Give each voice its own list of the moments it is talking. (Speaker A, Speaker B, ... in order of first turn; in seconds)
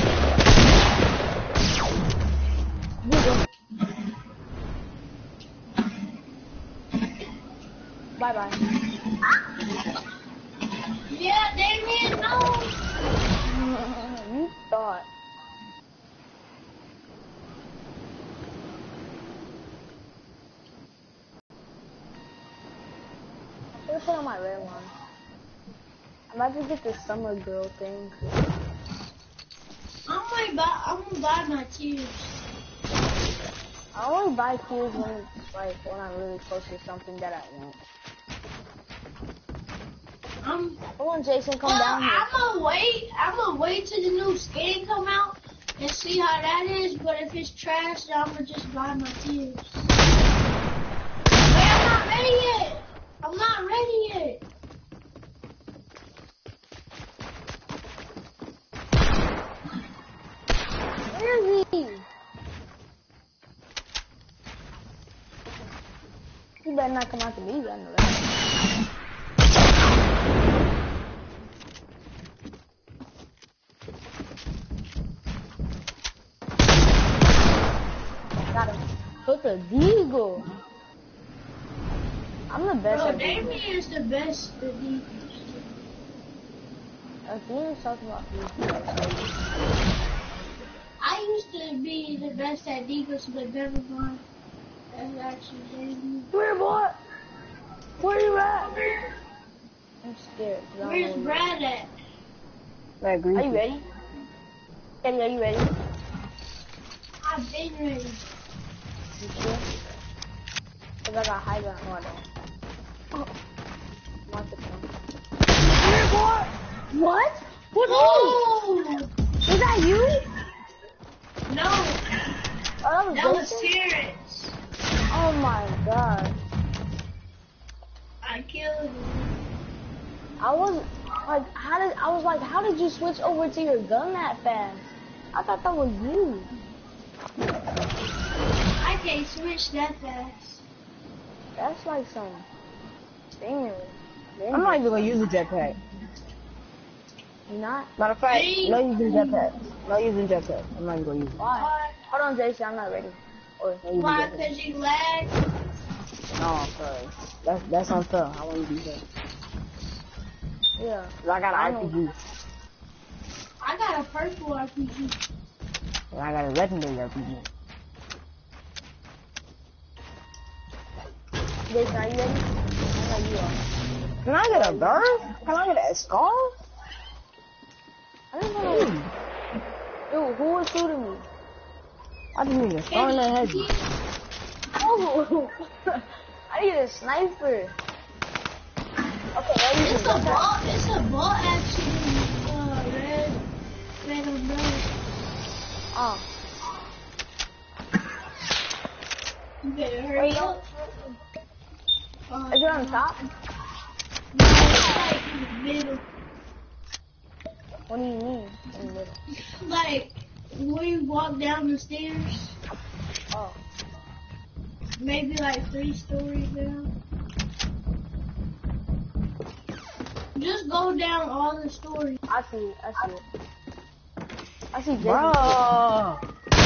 Speaker A: 3.0-3.5, 8.2-8.6, 13.4-15.1, 23.8-24.9, 26.3-28.4, 33.9-37.8, 41.0-42.2, 61.1-62.1, 66.6-68.4, 78.5-80.5, 82.5-83.6, 87.2-89.3, 96.3-97.0, 98.0-98.9, 100.0-101.4, 103.3-103.8, 105.0-105.7, 109.2-110.0, 111.0-112.2, 114.3-114.9, 115.8-118.4, 119.5-120.3, 122.8-123.7, 125.1-126.4, 130.4-136.5, 141.6-142.4, 143.4-145.2, 147.5-147.9, 151.4-153.9, 160.8-161.9, 171.7-173.6, 174.5-175.0, 178.3-179.0, 180.1-181.3, 184.8-187.8, 189.3-190.4, 195.9-196.3, 200.2-201.2, 202.5-203.2, 207.9-209.2, 213.3-213.6, 222.3-223.2, 224.7-225.6
Speaker B: 11.1-12.7, 30.1-32.3, 40.4-40.8, 41.6-49.9, 51.5-54.4, 82.9-85.2, 91.0-94.2, 94.9-96.3, 100.8-101.9, 107.2-108.2, 117.8-119.1, 121.5-122.0, 123.1-124.6, 128.2-129.3, 138.8-140.7, 148.3-149.5, 151.6-152.0, 153.9-155.4, 163.6-165.2, 182.9-183.9, 189.8-193.4, 194.0-194.9, 199.6-200.6, 202.3-203.2, 204.3-206.0, 209.6-212.6, 215.0-216.9, 220.3-222.2
Speaker C: 103.0-103.6, 144.5-145.8, 148.0-151.4, 153.8-154.4, 156.4-159.0, 161.2-162.2, 166.1-167.5, 174.2-176.5, 178.6-179.0, 182.3-183.7, 225.0-226.2